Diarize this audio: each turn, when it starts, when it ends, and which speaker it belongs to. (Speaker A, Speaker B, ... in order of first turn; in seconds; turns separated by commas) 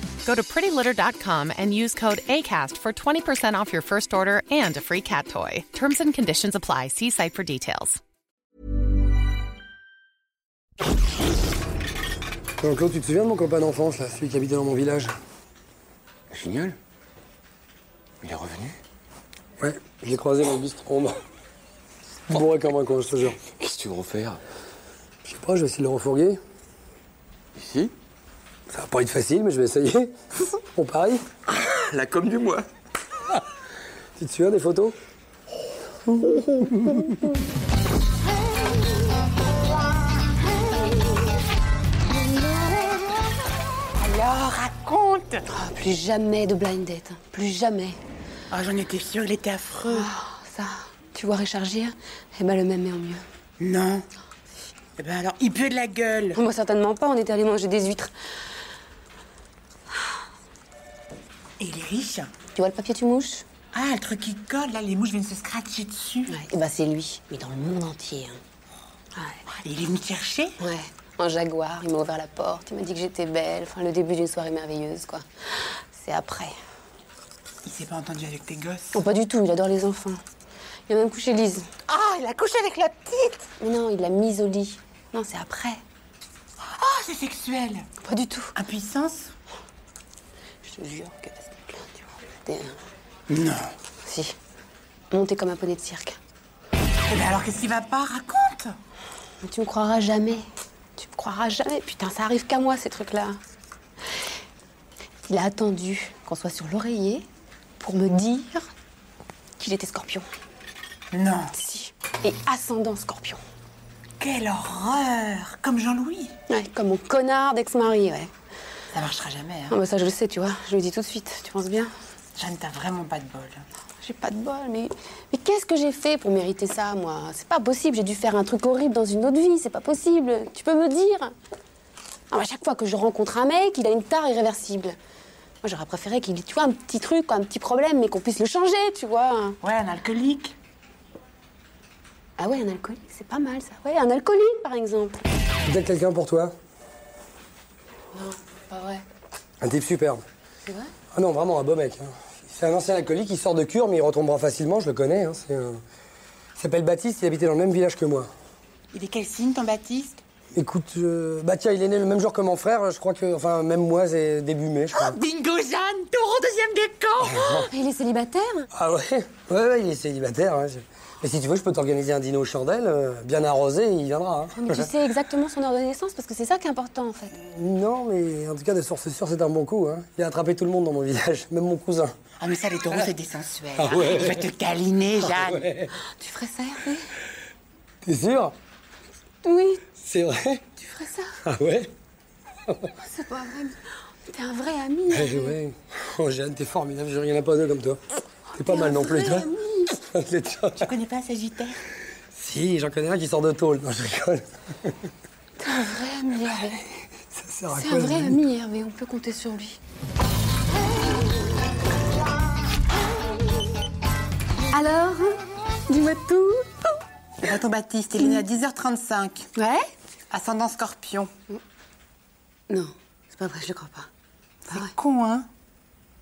Speaker A: 0.2-8.0, Speaker B: 12.6-15.1, Speaker C: 16.3-16.8, Speaker C: 18.2-18.8, Speaker B: 19.6-21.2, Speaker B: 22.3-23.4, Speaker C: 23.6-24.4, Speaker B: 25.2-26.4, Speaker C: 27.6-27.9, Speaker B: 28.7-30.1, Speaker B: 30.7-31.2, Speaker C: 31.5-32.7, Speaker B: 34.2-35.0, Speaker D: 44.0-45.5, Speaker E: 45.5-48.0, Speaker D: 48.5-50.1, Speaker E: 49.9-53.2, Speaker D: 53.6-54.1, Speaker D: 55.0-56.4, Speaker E: 56.3-58.1, Speaker D: 61.6-62.3, Speaker E: 62.5-63.4, Speaker D: 63.7-66.4, Speaker E: 66.3-68.4, Speaker D: 69.5-70.5, Speaker E: 70.6-76.5, Speaker D: 77.6-79.0, Speaker E: 78.9-80.2, Speaker E: 80.9-81.7, Speaker D: 81.9-83.5, Speaker E: 83.6-85.8, Speaker D: 86.6-87.9, Speaker E: 88.0-88.5, Speaker D: 88.5-89.3, Speaker E: 90.6-92.8, Speaker D: 93.3-93.7, Speaker E: 94.0-94.3, Speaker E: 95.1-96.2, Speaker D: 97.1-98.8, Speaker E: 99.4-100.4, Speaker E: 101.0-103.4, Speaker E: 105.2-107.2, Speaker E: 107.8-108.7, Speaker E: 109.6-110.2, Speaker D: 111.1-111.5, Speaker E: 111.5-113.4, Speaker D: 114.2-116.3, Speaker E: 116.5-118.3, Speaker D: 118.9-119.8, Speaker E: 119.7-121.9, Speaker D: 122.3-123.7, Speaker E: 124.0-131.3, Speaker E: 132.3-134.9, Speaker E: 135.6-139.6, Speaker D: 139.6-140.6, Speaker E: 142.4-145.2, Speaker B: 145.6-146.5, Speaker E: 148.1-149.0, Speaker B: 149.6-150.2, Speaker E: 150.6-150.9, Speaker B: 151.1-155.8, Speaker B: 156.6-158.3, Speaker D: 158.9-160.2, Speaker B: 160.5-165.2, Speaker D: 164.9-167.6, Speaker B: 167.3-167.6, Speaker E: 167.5-168.7, Speaker B: 168.7-174.9, Speaker E: 174.5-177.3, Speaker B: 177.3-182.1, Speaker D: 182.4-185.7, Speaker B: 183.8-184.3, Speaker B: 185.3-185.9, Speaker E: 186.1-187.0, Speaker B: 188.0-188.6, Speaker E: 189.4-189.8, Speaker B: 190.0-190.6, Speaker E: 190.8-191.3, Speaker B: 191.4-191.9, Speaker E: 193.0-193.8, Speaker E: 194.3-195.5, Speaker B: 195.1-198.0, Speaker B: 198.5-200.9, Speaker E: 198.6-199.9, Speaker D: 200.8-201.8, Speaker B: 202.3-204.9, Speaker E: 205.6-206.8, Speaker B: 207.3-208.4, Speaker E: 207.7-209.8, Speaker E: 214.7-216.6, Speaker D: 217.4-219.5, Speaker E: 219.6-219.8, Speaker D: 220.3-221.3, Speaker E: 222.7-224.1, Speaker D: 224.6-225.5